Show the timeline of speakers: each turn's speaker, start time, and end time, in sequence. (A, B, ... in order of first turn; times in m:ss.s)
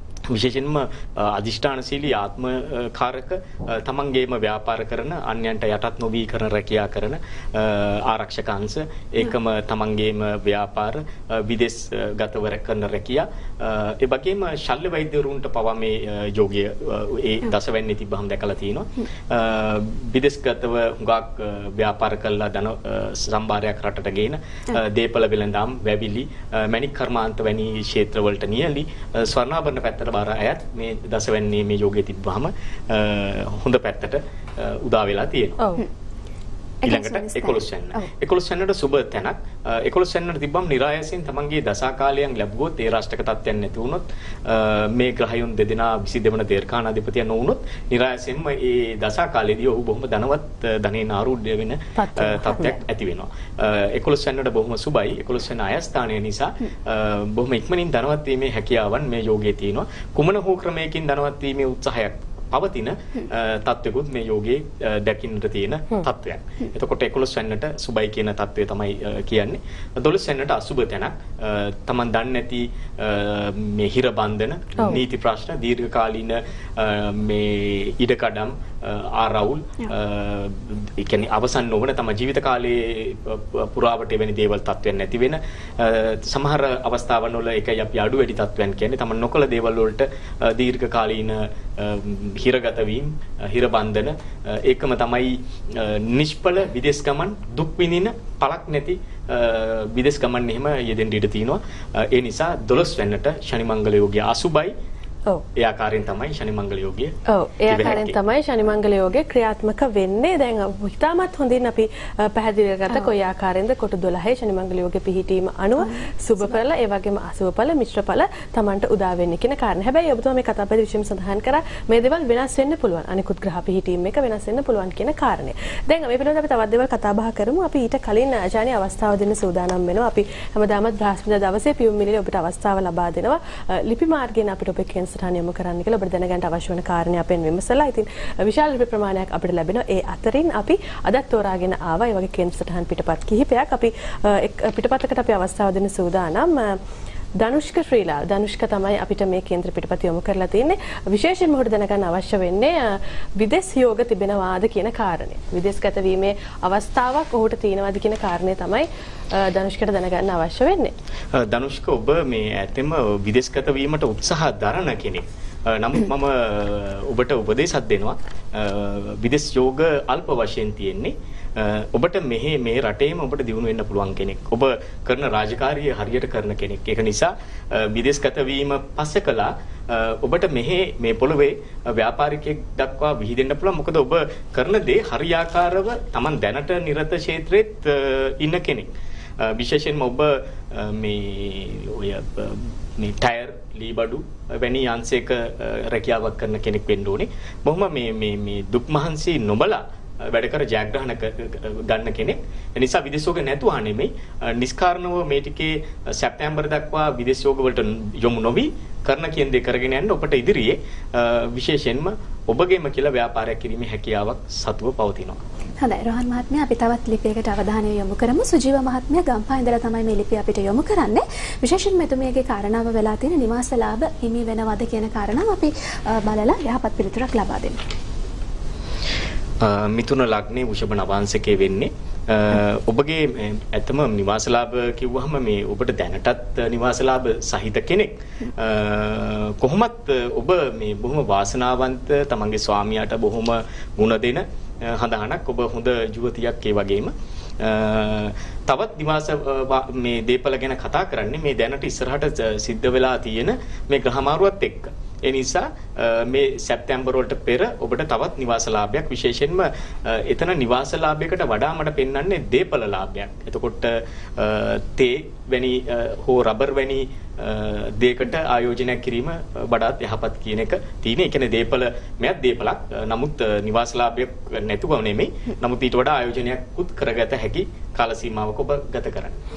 0:00.3-0:35.6 A
0:35.6-0:35.8 B
0:36.8-0:38.1 C
0:36.8-1:44.7 A
0:52.0-0:52.8 B
1:45.6-1:47.1 A
1:47.3-2:26.8 B
1:47.7-1:48.2 A
1:47.8-1:48.0 C
2:27.4-2:40.9 B
2:41.3-3:35.4 A
3:35.8-3:47.8 C
3:49.6-4:39.4 A